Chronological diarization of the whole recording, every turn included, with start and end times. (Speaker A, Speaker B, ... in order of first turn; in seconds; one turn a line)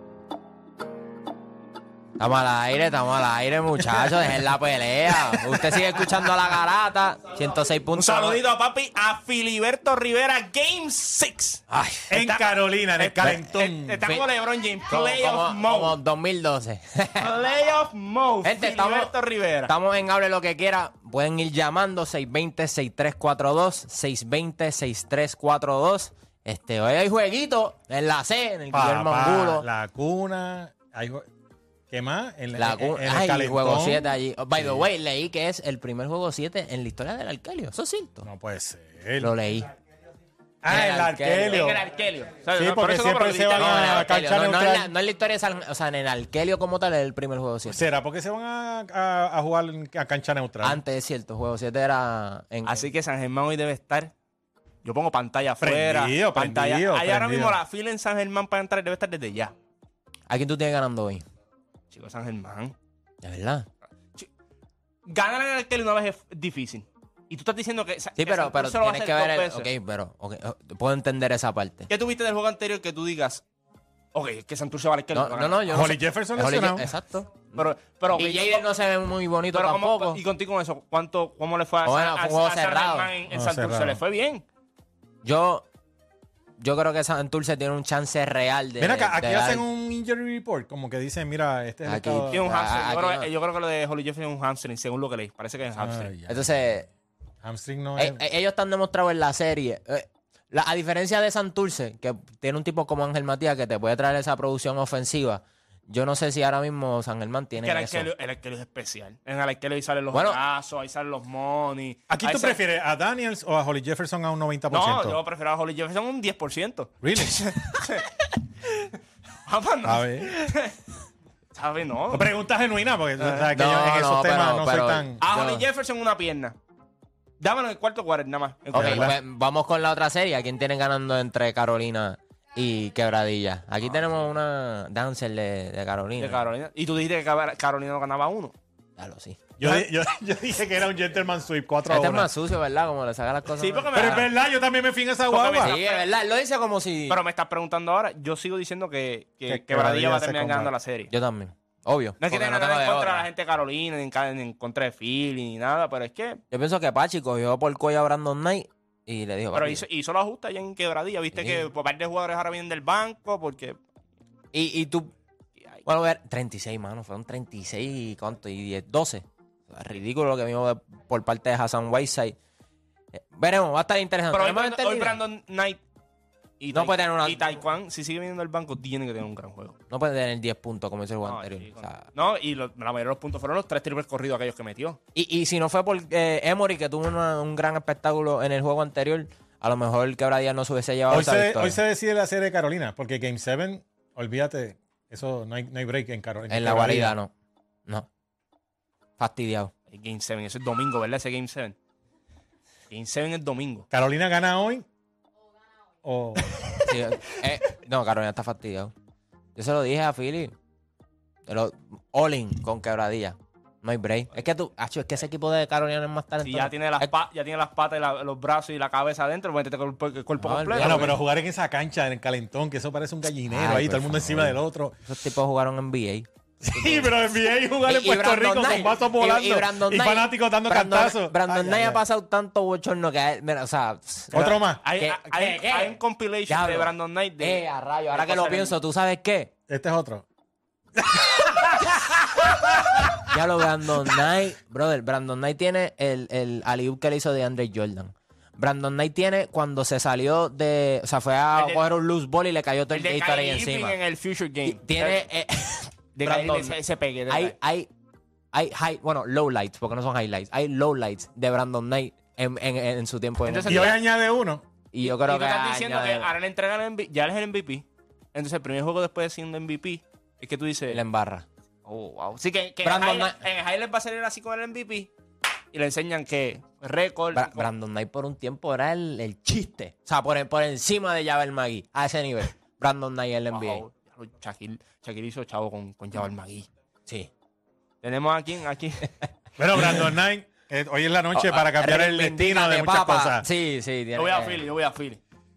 Speaker A: 2.2-8.4
Speaker B: 7.9-11.6
Speaker A: 11.7-12.1
Speaker C: 12.1-14.0
Speaker B: 12.2-15.9
Speaker A: 14.9-17.3
Speaker B: 17.2-19.7
Speaker A: 18.4-19.1
Speaker A: 19.6-29.6
Speaker C: 28.7-31.2
Speaker C: 31.9-34.8
Speaker A: 32.5-38.2
Speaker C: 38.2-39.3
Speaker A: 39.2-39.7
Speaker C: 40.6-41.8
Speaker A: 40.7-41.7
Speaker B: 41.5-44.1
Speaker C: 42.5-44.9
Speaker A: 43.5-47.8
Speaker C: 47.7-50.8
Speaker A: 50.6-52.9
Speaker B: 52.6-54.1
Speaker B: 54.8-59.5
Speaker C: 55.6-57.6
Speaker A: 60.3-61.2
Speaker B: 61.9-62.7
Speaker A: 63.2-63.7
Speaker B: 65.1-69.7
Speaker A: 68.2-71.9
Speaker B: 71.9-73.4
Speaker B: 74.1-75.6
Speaker A: 75.1-80.2
Speaker C: 75.7-76.9
Speaker B: 77.5-78.7
Speaker B: 79.5-84.4
Speaker A: 81.8-83.1
Speaker C: 83.3-84.0
Speaker A: 85.2-85.7
Speaker A: 86.6-89.6
Speaker C: 88.8-92.4
Speaker A: 91.8-93.3
Speaker B: 92.3-96.1
Speaker C: 95.8-96.5
Speaker A: 96.3-96.9
Speaker C: 97.4-98.2
Speaker A: 98.0-108.1
Speaker B: 107.6-112.6
Speaker A: 110.1-110.4
Speaker C: 112.1-115.2
Speaker B: 114.7-118.1
Speaker C: 117.0-117.7
Speaker B: 119.5-120.8
Speaker C: 119.8-120.5
Speaker B: 121.5-122.3
Speaker C: 122.1-125.2
Speaker B: 123.2-123.5
Speaker A: 123.5-125.7
Speaker B: 125.2-126.5
Speaker B: 127.4-129.1
Speaker C: 128.7-129.2
Speaker A: 128.7-136.4
Speaker B: 136.2-138.5
Speaker A: 139.0-139.9
Speaker C: 139.6-142.3
Speaker A: 141.8-144.3
Speaker B: 143.6-144.3
Speaker C: 143.9-145.7
Speaker B: 145.3-146.0
Speaker A: 145.6-147.2
Speaker B: 147.1-151.1
Speaker C: 149.5-150.7
Speaker A: 151.1-153.3
Speaker B: 152.2-156.4
Speaker A: 156.5-159.8
Speaker B: 159.5-163.8
Speaker A: 161.3-161.7
Speaker A: 164.5-165.1
Speaker A: 165.8-172.4
Speaker A: 173.1-175.2
Speaker B: 174.3-175.8
Speaker B: 176.6-179.8
Speaker A: 176.7-177.5
Speaker A: 179.9-182.1
Speaker B: 181.2-185.0
Speaker A: 185.1-191.8
Speaker C: 191.1-197.1
Speaker A: 196.5-197.3
Speaker A: 199.2-199.7
Speaker B: 199.9-201.8
Speaker B: 202.9-203.8
Speaker C: 203.9-204.8
Speaker C: 206.0-206.8
Speaker A: 206.8-208.9
Speaker A: 209.6-210.5
Speaker A: 211.4-217.1
Speaker B: 216.4-221.1
Speaker A: 220.4-221.2
Speaker C: 220.8-224.9
Speaker A: 223.5-227.3
Speaker C: 226.6-232.0
Speaker A: 227.8-235.9
Speaker C: 234.3-234.8
Speaker B: 234.3-238.8
Speaker A: 236.5-239.5
Speaker C: 239.7-240.2
Speaker C: 241.0-243.3
Speaker A: 243.3-253.9
Speaker B: 251.6-251.8
Speaker B: 252.9-255.2
Speaker A: 254.6-256.8
Speaker B: 256.1-257.6
Speaker A: 257.3-257.9
Speaker A: 258.5-263.9
Speaker B: 263.4-263.9
Speaker C: 263.7-264.6
Speaker A: 264.9-266.3
Speaker B: 265.0-271.0
Speaker A: 270.9-271.4
Speaker B: 271.9-275.1
Speaker A: 272.8-273.4
Speaker B: 275.7-277.7
Speaker A: 277.3-283.8
Speaker B: 283.5-286.7
Speaker B: 288.0-289.1
Speaker C: 289.6-293.4
Speaker A: 291.4-294.6
Speaker B: 294.1-295.2